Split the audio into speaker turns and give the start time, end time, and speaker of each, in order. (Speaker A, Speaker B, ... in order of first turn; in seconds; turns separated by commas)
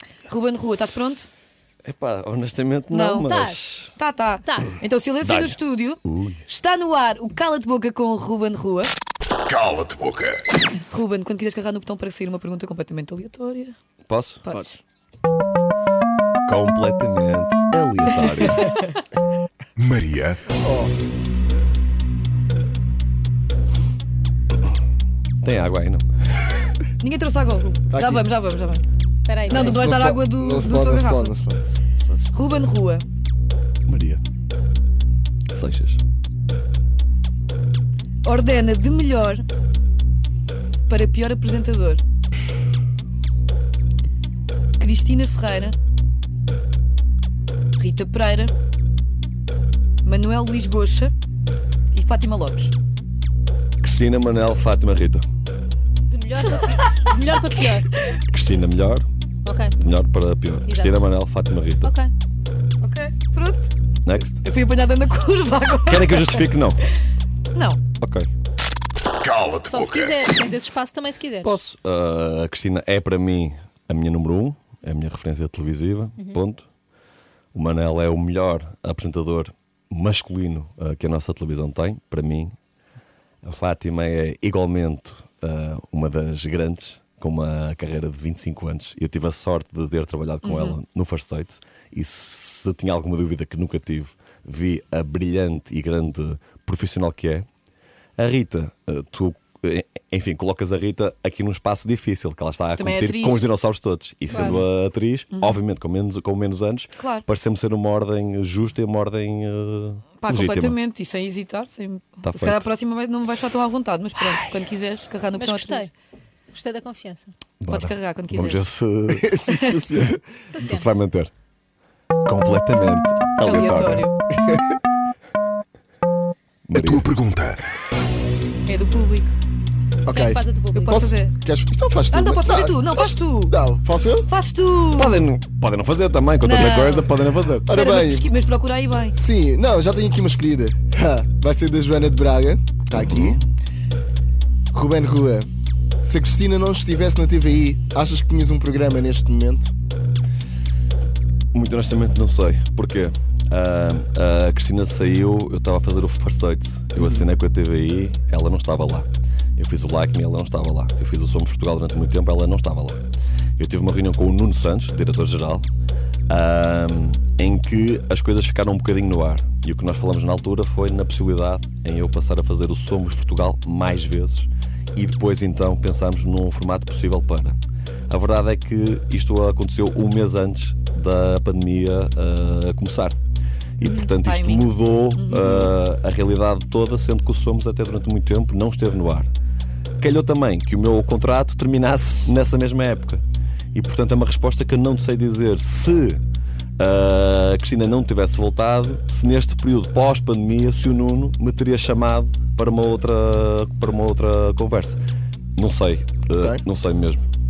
Speaker A: 0.3-1.3, Speaker B: 1.8-3.9, Speaker A: 2.9-3.3, Speaker C: 3.2-3.6, Speaker A: 4.0-8.9, Speaker B: 5.2-6.4, Speaker D: 9.6-10.3, Speaker A: 10.9-13.8, Speaker B: 14.1-14.4, Speaker A: 14.4-14.7, Speaker B: 16.5-18.8, Speaker A: 18.5-18.9, Speaker D: 19.8-20.4, Speaker E: 20.6-20.9, Speaker B: 25.4-26.6, Speaker A: 27.0-28.9, Speaker E: 27.9-28.3, Speaker C: 29.2-29.9, Speaker A: 29.5-31.4, Speaker E: 29.6-31.6, Speaker A: 32.3-33.1, Speaker B: 33.9-34.2, Speaker B: 35.5-36.0, Speaker A: 38.2-39.4, Speaker A: 40.9-42.0, Speaker A: 44.8-45.8, Speaker A: 47.8-48.5, Speaker A: 50.0-51.1, Speaker A: 51.9-52.7, Speaker B: 53.8-55.2, Speaker C: 56.1-57.9, Speaker A: 56.4-57.1, Speaker B: 58.3-59.1, Speaker C: 59.5-59.8, Speaker B: 59.8-61.9, Speaker C: 60.7-61.1, Speaker C: 61.8-62.1, Speaker A: 62.8-63.7, Speaker B: 64.0-64.4, Speaker A: 64.4-66.5, Speaker B: 65.9-66.8, Speaker A: 67.5-67.8, Speaker B: 68.0-68.3, Speaker C: 69.5-71.6, Speaker B: 71.4-76.7, Speaker B: 77.5-82.6, Speaker B: 83.4-97.5, Speaker A: 90.4-90.8, Speaker B: 98.2-110.8, Speaker A: 102.8-103.5, Speaker C: 104.3-104.6, Speaker A: 105.3-105.6, Speaker A: 107.0-107.2, Speaker A: 110.2-115.9, Speaker B: 112.2-112.7, Speaker C: 115.4-115.9, Speaker C: 116.5-117.3, Speaker B: 117.6-119.4, Speaker A: 117.7-118.7, Speaker E: 119.1-120.3, Speaker C: 120.5-120.9, Speaker B: 120.6-121.3, Speaker B: 122.2-124.1, Speaker A: 123.4-124.1, Speaker E: 124.3-124.7, Speaker B: 126.7-127.1, Speaker D: 126.8-127.6, Speaker A: 128.7-129.3, Speaker E: 130.1-134.3, Speaker C: 130.1-130.9, Speaker A: 130.7-131.3, Speaker A: 132.1-133.6, Speaker A: 134.2-135.3, Speaker B: 135.0-137.7, Speaker A: 136.4-139.2, Speaker E: 137.7-138.3, Speaker E: 139.2-143.4, Speaker B: 142.9-143.5, Speaker E: 144.7-145.5, Speaker E: 146.0-149.7, Speaker B: 151.5-163.0, Speaker B: 163.6-165.7, Speaker B: 166.3-177.6, Speaker B: 178.1-183.2, Speaker B: 183.8-189.3, Speaker C: 183.8-184.1, Speaker A: 184.2-185.7, Speaker B: 190.0-196.2, Speaker B: 196.8-205.0, Speaker B: 205.6-207.3, Speaker E: 206.4-206.6